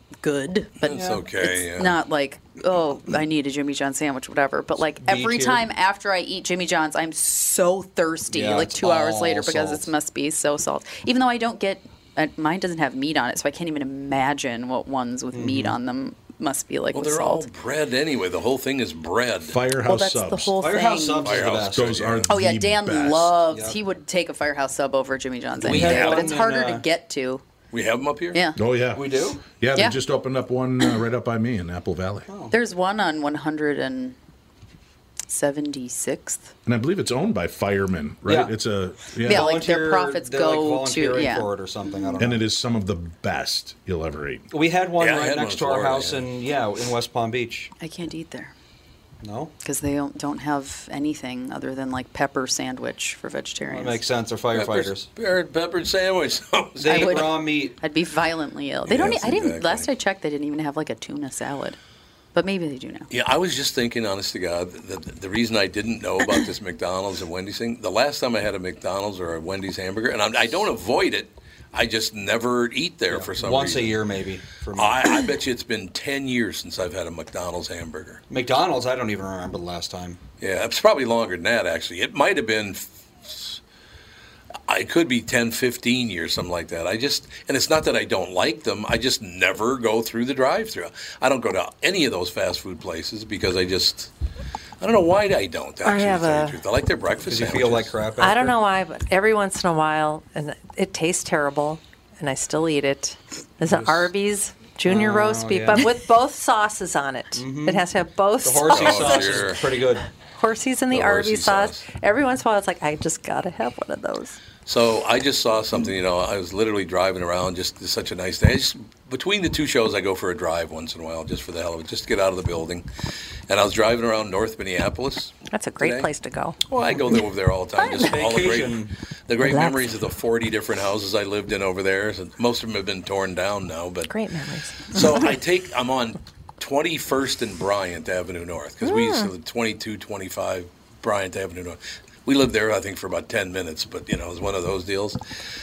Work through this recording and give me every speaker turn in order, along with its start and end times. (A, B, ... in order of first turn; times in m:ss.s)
0:00.2-0:17.5 A
0:00.8-0:02.0 B
0:05.0-0:05.7 C
0:08.3-0:09.9 C
0:15.3-0:15.8 C
0:16.9-0:19.6 B
0:19.4-0:20.5 D
0:19.8-0:21.4 A
0:20.6-0:22.1 C
0:21.2-0:22.3 B
0:21.7-0:23.4 D
0:22.3-0:27.4 A
0:23.5-0:23.8 C
0:25.6-0:26.3 B
0:25.6-0:26.8 C
0:27.7-0:28.4 B
0:28.3-0:28.6 A
0:28.6-0:32.3 D
0:28.9-0:29.4 C
0:29.7-0:30.0 A
0:32.3-0:32.6 C
0:32.5-0:34.2 A
0:35.3-0:36.5 A
0:36.6-0:39.6 D
0:38.2-0:38.5 C
0:39.2-0:42.4 C
0:39.2-0:41.5 A
0:42.2-0:44.4 D
0:44.5-0:47.7 C
0:45.0-0:46.3 B
0:47.8-0:48.5 A
0:49.2-0:49.5 C
0:49.6-0:54.0 A
0:53.7-0:55.1 C
0:54.5-0:57.3 B
0:56.8-0:57.8 C
0:56.9-1:01.8 A
0:58.9-0:59.9 B
1:02.3-1:03.1 A
1:03.1-1:14.0 B
1:13.1-1:15.2 C
1:14.8-1:18.2 B
1:18.3-1:20.2 C
1:20.4-1:23.6 B
1:24.7-1:34.1 B
1:34.8-1:37.9 B
1:35.8-1:36.6 E
1:37.2-1:38.6 C
1:38.2-1:49.5 E
1:44.8-1:45.9 C
1:47.4-1:47.9 C
1:48.4-1:50.0 C
1:48.7-1:49.6 B
1:50.4-1:54.4 E
1:50.9-1:51.8 B
1:54.6-2:02.8 B
2:03.5-2:06.1 B
2:05.5-2:06.6 E
2:06.7-2:14.1 B
2:07.8-2:08.9 C
2:09.4-2:10.0 E
2:14.1-2:15.2 E
2:14.9-2:25.2 B
2:18.8-2:19.3 E